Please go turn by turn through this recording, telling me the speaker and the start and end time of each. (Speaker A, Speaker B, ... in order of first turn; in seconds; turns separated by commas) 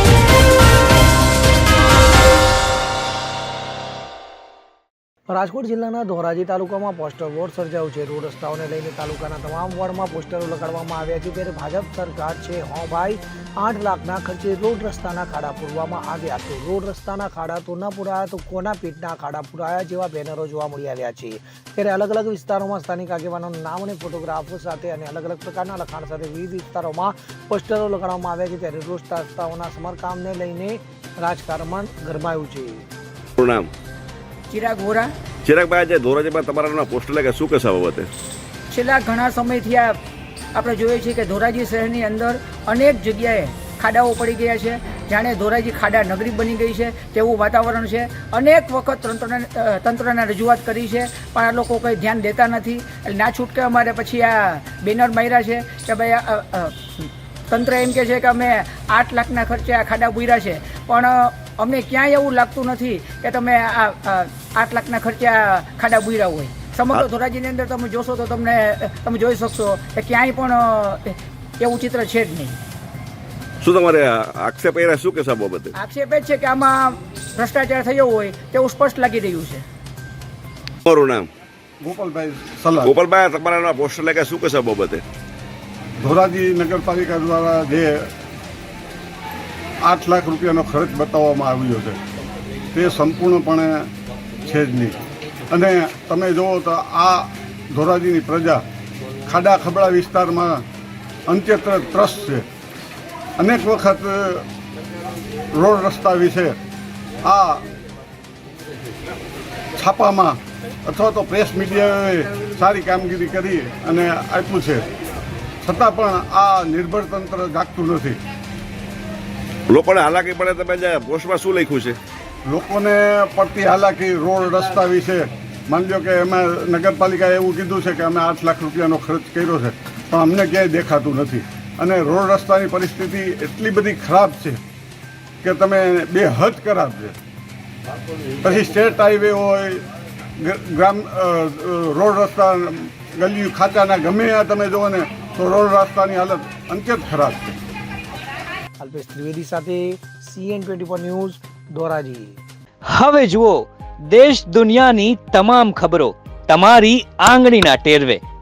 Speaker A: 5.3-32.9, Speaker B: 33.4-33.7, Speaker C: 34.5-35.1, Speaker B: 35.5-38.1, Speaker C: 38.7-40.0, Speaker C: 40.5-72.6, Speaker B: 73.6-75.7, Speaker C: 75.8-79.6, Speaker B: 80.9-81.3, Speaker D: 81.8-83.1, Speaker B: 82.8-85.0, Speaker D: 86.0-88.0, Speaker D: 89.8-92.0, Speaker D: 92.7-93.9, Speaker D: 94.5-95.0, Speaker D: 95.5-98.7, Speaker D: 99.3-100.6, Speaker D: 101.3-102.5, Speaker D: 103.4-104.5, Speaker D: 105.5-106.6, Speaker D: 107.2-107.6, Speaker D: 109.8-114.9, Speaker D: 115.6-118.2, Speaker B: 119.7-122.0, Speaker D: 122.5-134.6, Speaker D: 135.4-137.2, Speaker D: 138.4-139.8, Speaker D: 140.4-147.6, Speaker A: 148.8-152.4, Speaker E: 152.9-158.2